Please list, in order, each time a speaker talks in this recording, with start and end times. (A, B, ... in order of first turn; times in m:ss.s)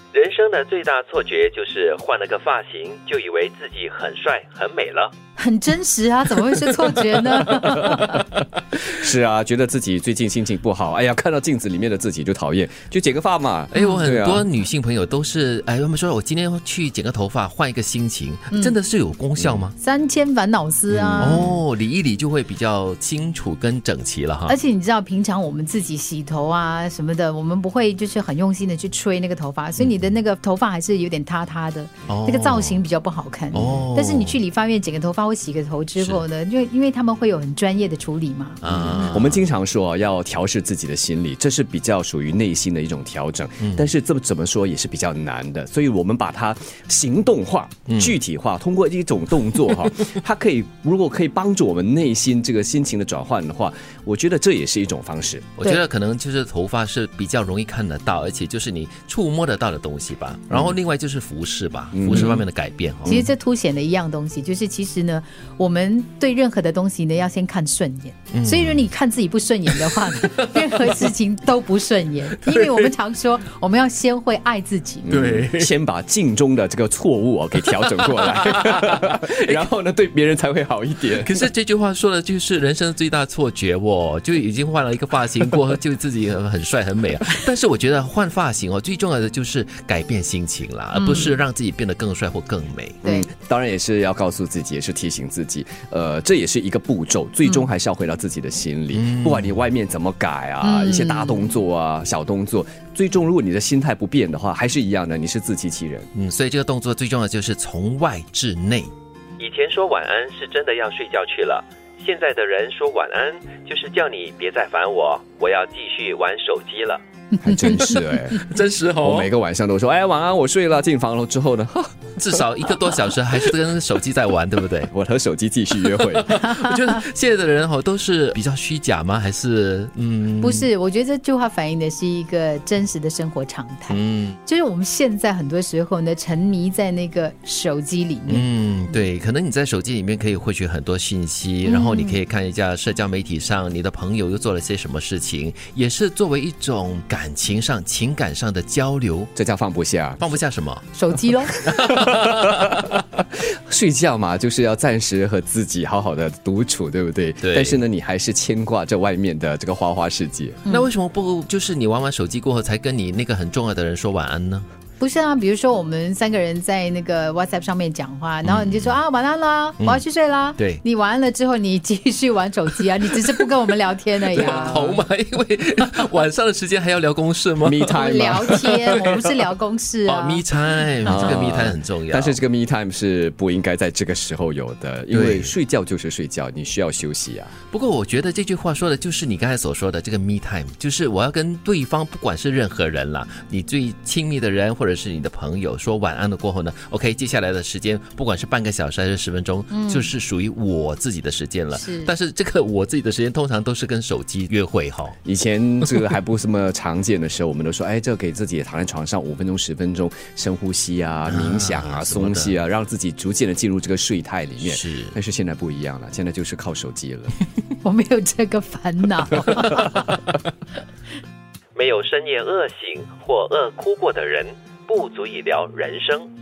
0:00.1-0:05.1 A
0:05.4-0:08.3 B
0:07.7-0:14.5 C
0:13.7-0:19.8 D
0:13.8-0:14.0 B
0:19.4-0:19.7 C
0:19.8-0:21.5 B
0:20.9-0:21.6 C
0:21.2-0:24.6 D
0:24.5-0:39.1 B
0:32.1-0:32.8 D
0:33.5-0:34.4 D
0:33.5-0:33.9 C
0:38.6-0:39.4 D
0:38.7-0:55.5 C
0:43.6-0:43.9 D
0:47.9-0:48.2 D
0:55.6-1:03.3 D
1:00.5-1:00.8 C
1:01.9-1:02.4 C
1:03.1-1:03.3 C
1:03.1-1:15.2 B
1:08.3-1:08.9 D
1:09.7-1:11.1 D
1:12.4-1:12.9 D
1:15.0-1:21.4 C
1:15.1-1:15.8 D
1:17.6-1:19.6 D
1:21.2-1:33.0 D
1:30.9-1:31.4 B
1:33.0-1:33.3 B
1:33.0-1:46.1 C
1:38.9-1:39.5 D
1:40.6-1:41.6 B
1:46.2-1:48.9 D
1:49.4-1:57.0 A
1:57.3-1:58.2 B
1:57.4-1:58.5 C
1:58.3-1:59.3 D
1:59.0-2:03.0 C
2:02.2-2:04.9 D
2:04.9-2:06.4 C
2:05.8-2:10.7 D
2:06.5-2:07.0 B
2:10.4-2:18.5 B
2:13.9-2:14.4 D
2:18.3-2:29.3 D
2:21.6-2:22.2 B
2:29.4-2:30.3 C
2:30.2-2:30.9 D
2:30.9-2:31.6 B
2:31.5-2:32.8 D
2:31.9-2:40.6 C
2:37.4-2:37.8 D
2:40.7-2:44.6 D
2:45.0-2:55.0 B
2:48.4-2:49.0 D
2:50.6-2:50.8 D
2:54.3-2:59.2 D
2:54.4-2:54.7 C
2:57.6-2:59.0 C
2:57.9-3:00.5 B
3:00.1-3:02.4 D
3:01.0-3:07.5 C
3:01.1-3:01.3 B
3:05.1-3:05.5 D
3:07.7-3:25.2 D
3:19.7-3:20.1 B
3:21.8-3:22.1 B
3:25.2-3:37.3 C
3:31.3-3:32.6 D
3:34.6-3:35.2 D
3:37.8-3:40.2 B
3:41.8-3:46.3 A